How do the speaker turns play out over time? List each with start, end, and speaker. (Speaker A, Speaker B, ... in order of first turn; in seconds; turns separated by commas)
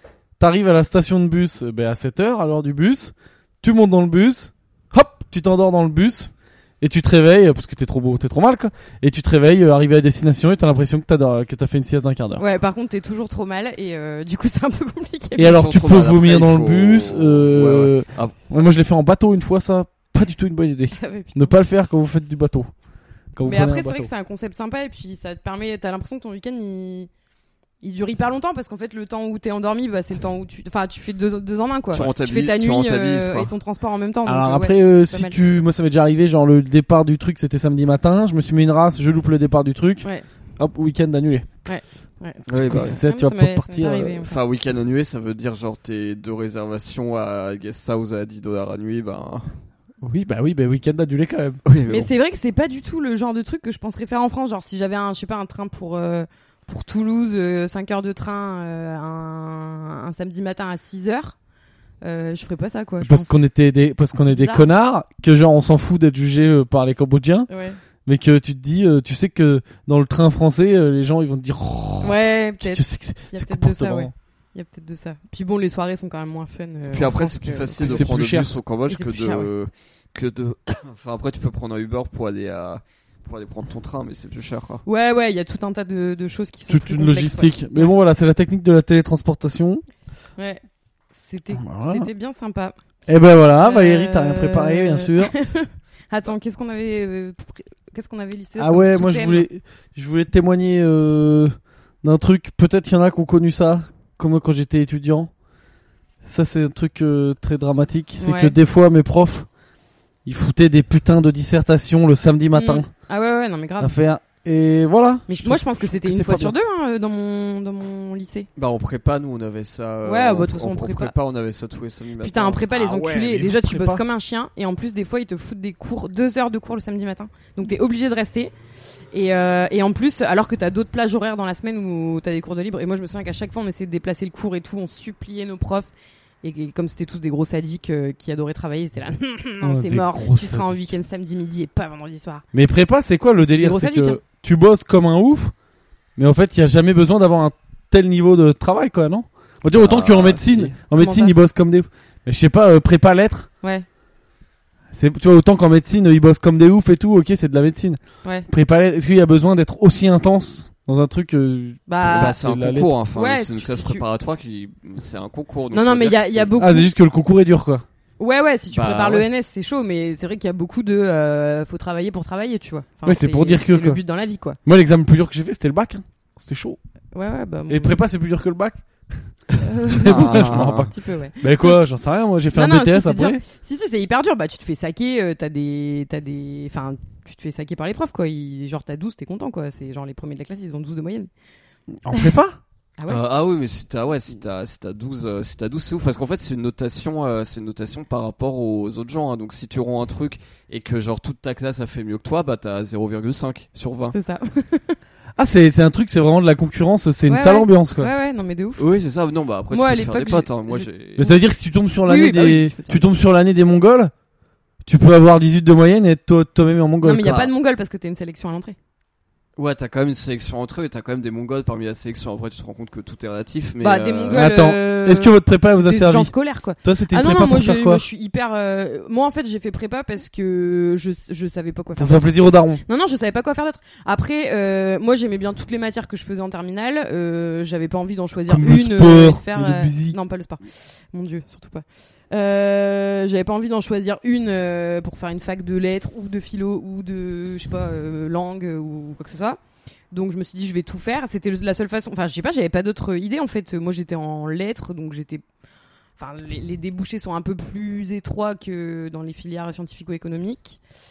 Speaker A: 0.4-12.4, Speaker B: 12.4-15.6, Speaker A: 15.4-22.7, Speaker C: 15.4-18.4, Speaker B: 20.9-21.6, Speaker A: 23.3-24.1, Speaker B: 23.4-27.1, Speaker B: 27.8-35.4, Speaker C: 31.9-33.5, Speaker A: 34.2-40.0, Speaker A: 40.6-41.5, Speaker B: 41.6-44.4, Speaker C: 42.5-43.0, Speaker A: 42.6-44.2, Speaker C: 44.2-49.6, Speaker A: 50.0-51.6, Speaker C: 51.6-52.1, Speaker B: 51.9-61.4, Speaker B: 62.0-63.3, Speaker A: 63.0-67.5, Speaker B: 64.2-64.7, Speaker B: 67.5-67.8, Speaker A: 68.0-74.1, Speaker B: 72.0-78.1, Speaker C: 76.9-84.8, Speaker A: 77.8-78.5, Speaker B: 78.9-79.5, Speaker B: 84.8-87.9, Speaker A: 86.7-89.8, Speaker B: 91.1-92.8, Speaker A: 91.6-92.1, Speaker A: 93.1-95.3, Speaker B: 93.6-99.5, Speaker A: 98.6-105.3, Speaker A: 106.2-109.5, Speaker B: 108.2-108.5, Speaker A: 110.2-112.9, Speaker B: 112.5-113.9, Speaker A: 113.8-116.5, Speaker B: 115.3-118.5, Speaker C: 118.6-122.8, Speaker B: 120.0-121.1, Speaker B: 122.2-128.5, Speaker A: 122.7-124.0, Speaker B: 129.1-142.4, Speaker A: 139.6-140.8, Speaker A: 142.5-145.5, Speaker B: 143.6-144.2, Speaker A: 146.2-153.5, Speaker C: 149.7-150.8, Speaker B: 151.0-151.3, Speaker A: 154.9-162.9, Speaker B: 161.9-162.4, Speaker C: 162.1-166.6, Speaker B: 163.1-164.0, Speaker B: 165.7-166.9, Speaker A: 166.6-167.8, Speaker B: 168.2-174.6, Speaker C: 168.7-169.2, Speaker A: 173.1-174.0, Speaker A: 174.6-176.8, Speaker B: 177.1-178.0, Speaker A: 177.7-179.3, Speaker B: 179.6-181.8, Speaker A: 179.9-183.4, Speaker C: 180.1-180.9, Speaker B: 182.5-191.3, Speaker A: 192.0-192.6, Speaker C: 193.1-204.2, Speaker B: 204.1-205.0, Speaker A: 205.4-208.1, Speaker B: 207.3-208.8, Speaker C: 208.8-211.3, Speaker B: 209.7-211.4, Speaker A: 211.2-214.1, Speaker B: 212.1-213.1, Speaker A: 214.8-217.4, Speaker B: 217.0-218.8, Speaker C: 217.2-217.5, Speaker C: 219.6-224.5, Speaker B: 223.8-249.6, Speaker A: 224.3-228.0, Speaker A: 232.0-232.8, Speaker A: 238.5-240.2, Speaker B: 250.1-255.4, Speaker B: 256.2-260.8